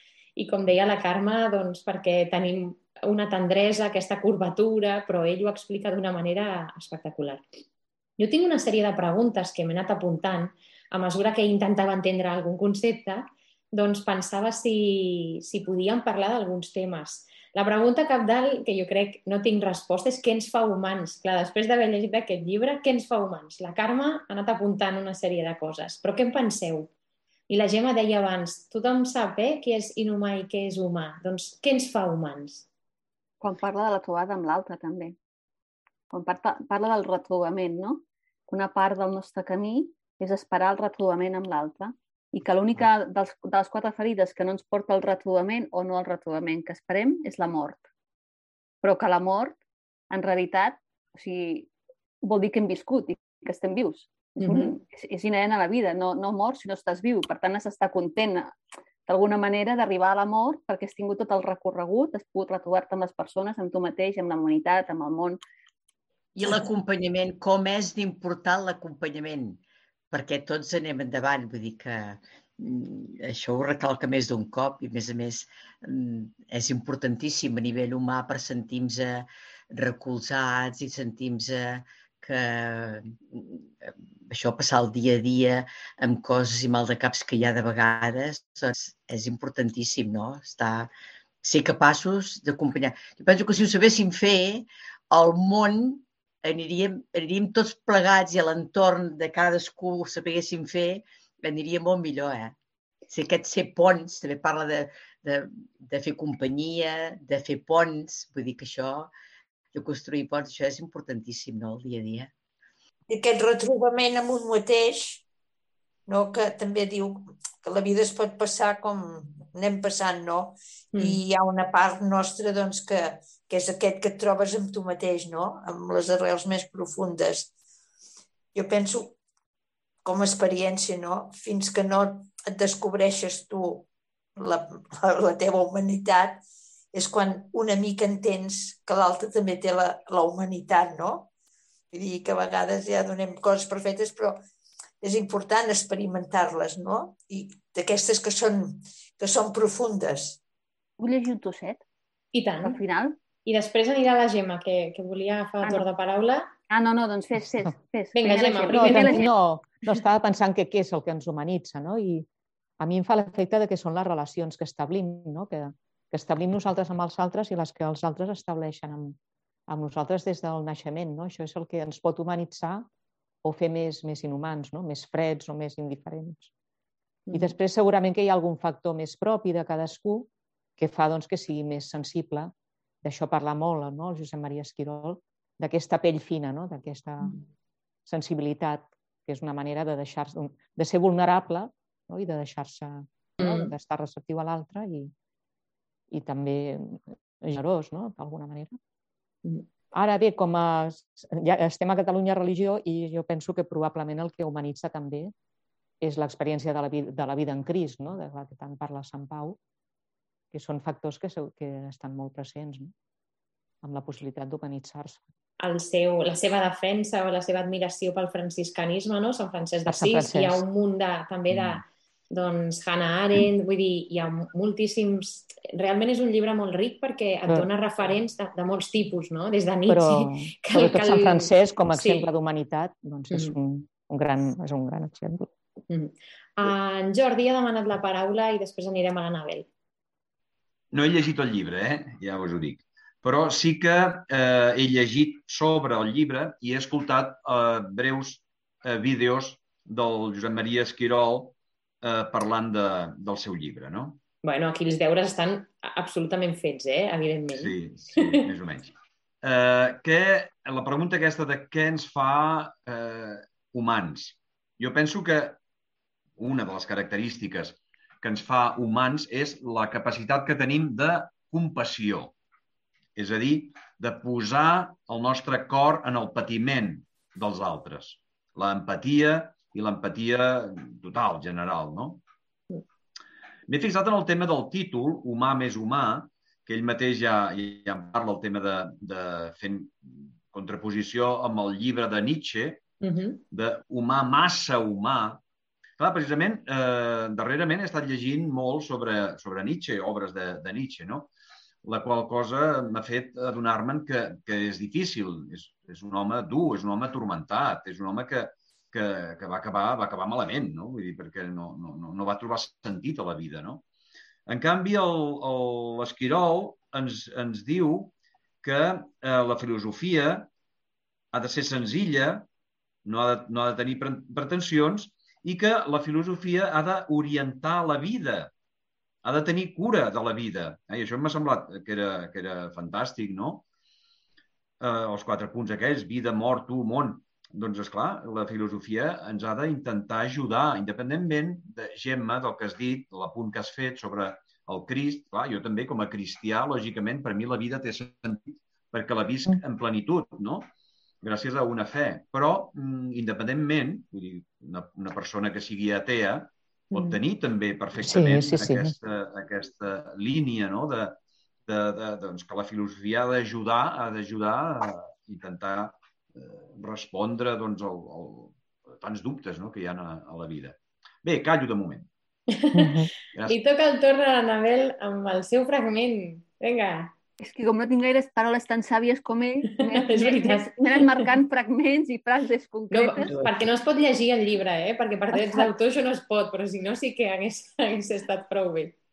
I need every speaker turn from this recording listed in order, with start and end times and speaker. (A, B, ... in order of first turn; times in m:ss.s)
0:00.4-0:07.4 A
0:08.2-0:26.9 A
0:27.5-0:32.7 A
0:33.4-0:35.2 B
0:36.1-0:47.8 B
0:48.8-0:49.6 B
0:50.1-0:51.7 B
0:52.2-0:58.5 B
0:54.4-0:54.7 A
0:59.1-1:05.4 B
1:06.4-1:09.6 C
1:10.1-1:30.9 C
1:31.4-1:42.6 C
1:43.1-1:49.1 C
1:49.7-1:52.3 C
1:53.1-1:55.2 D
1:56.1-2:07.5 D
2:00.9-2:01.2 A
2:08.5-2:09.2 D
2:10.0-2:21.3 D
2:21.9-2:24.4 D
2:25.0-2:30.4 D
2:31.0-2:31.8 B
2:32.3-2:32.8 A
2:32.6-2:33.2 B
2:33.5-2:36.5 A
2:36.7-2:39.3 B
2:38.2-2:39.3 A
2:38.7-2:42.3 E
2:42.8-2:49.2 E
2:49.7-2:52.9 E
2:53.4-2:56.5 E
2:57.3-2:57.6 A
2:57.3-3:02.5 E
3:03.0-3:07.4 E
3:08.1-3:15.1 E
3:13.4-3:13.7 A
3:16.1-3:18.8 E
3:19.9-3:25.3 E
3:26.0-3:29.6 E
3:30.5-3:32.9 E
3:33.8-3:35.2 E
3:35.6-3:52.3 A
3:39.9-3:40.6 E
3:41.5-3:41.8 F
3:49.9-3:55.5 E
3:53.3-3:53.6 A
3:55.9-3:59.7 A
4:00.9-4:14.2 F
4:14.4-4:18.4 A
4:17.5-4:25.6 F
4:26.4-4:32.4 F
4:33.2-4:42.2 F
4:43.7-4:52.8 F
4:53.0-4:53.4 A
4:53.5-4:55.4 F
4:56.0-5:01.3 F
5:01.8-5:13.8 F
5:14.5-5:18.1 F
5:18.6-5:20.5 F
5:21.3-5:22.5 F
5:23.0-5:28.5 F
5:29.2-5:33.6 F
5:34.8-5:50.7 F
5:51.2-6:12.1 F
5:58.0-5:59.0 E
6:12.5-6:12.9 A
6:12.8-6:13.1 E
6:13.3-6:13.6 F
6:13.5-6:17.1 A
6:17.4-6:23.4 B
6:19.9-6:21.3 A
6:22.9-6:29.0 A
6:25.3-6:25.7 B